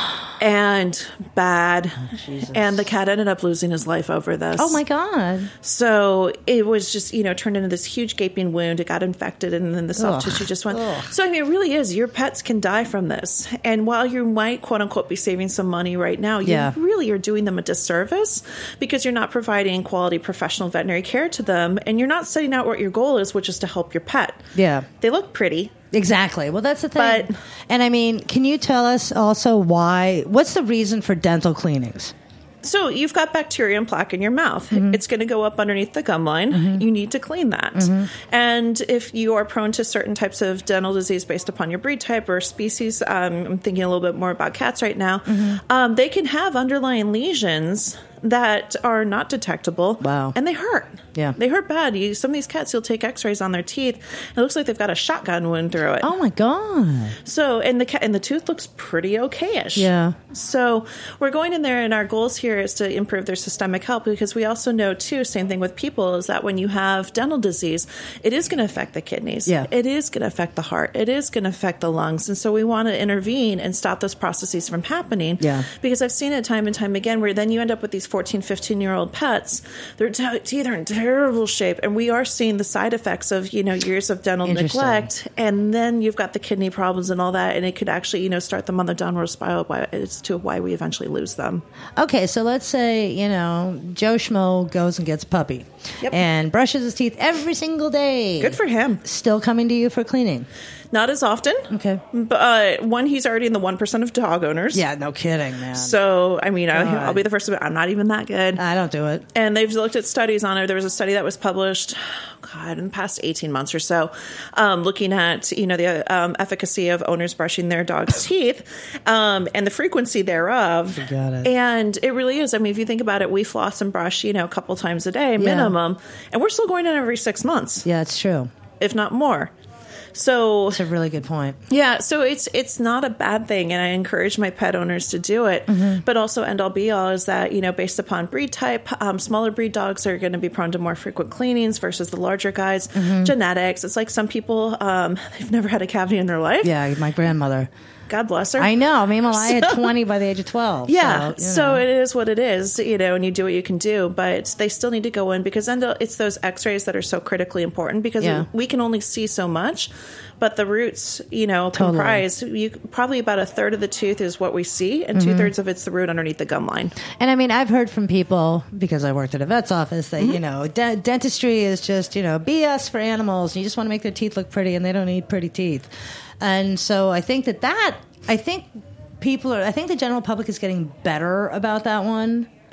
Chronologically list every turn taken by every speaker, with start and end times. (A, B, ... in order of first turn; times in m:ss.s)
0:00.4-0:04.8 A
0:02.1-0:02.9 B
0:04.6-0:05.5 B
0:05.6-0:24.5 A
0:10.0-0:11.1 B
0:16.4-0:16.8 B
0:24.6-0:24.9 B
0:25.0-0:25.7 A
0:25.9-0:32.1 B
0:27.0-0:27.3 A
0:32.6-0:56.1 A
0:34.7-0:35.0 B
0:36.5-0:36.9 B
0:37.8-0:38.1 B
0:45.3-0:45.6 B
0:50.0-0:50.4 B
0:56.0-0:57.2 B
0:57.2-1:31.6 A
0:59.8-1:00.2 B
1:15.4-1:15.7 B
1:24.4-1:25.1 B
1:32.0-1:40.5 B
1:38.4-1:39.0 A
1:40.9-1:44.8 A
1:41.7-1:42.0 B
1:44.7-1:46.0 B
1:45.7-1:48.6 A
1:46.7-1:47.2 B
1:48.6-1:49.3 B
1:49.4-2:07.9 A
2:00.9-2:01.5 B
2:05.4-2:05.8 B
2:07.8-2:08.5 B
2:08.8-2:09.5 A
2:10.1-2:10.8 A
2:10.7-2:11.6 B
2:11.7-2:26.7 A
2:15.7-2:16.0 B
2:23.0-2:23.3 B
2:26.6-2:27.7 B
2:28.1-2:28.8 A
2:28.6-2:31.8 B
2:29.3-2:29.9 A
2:30.9-2:47.0 A
2:38.2-2:38.5 B
2:41.7-2:42.2 B
2:45.1-2:45.5 B
2:47.1-3:02.5 B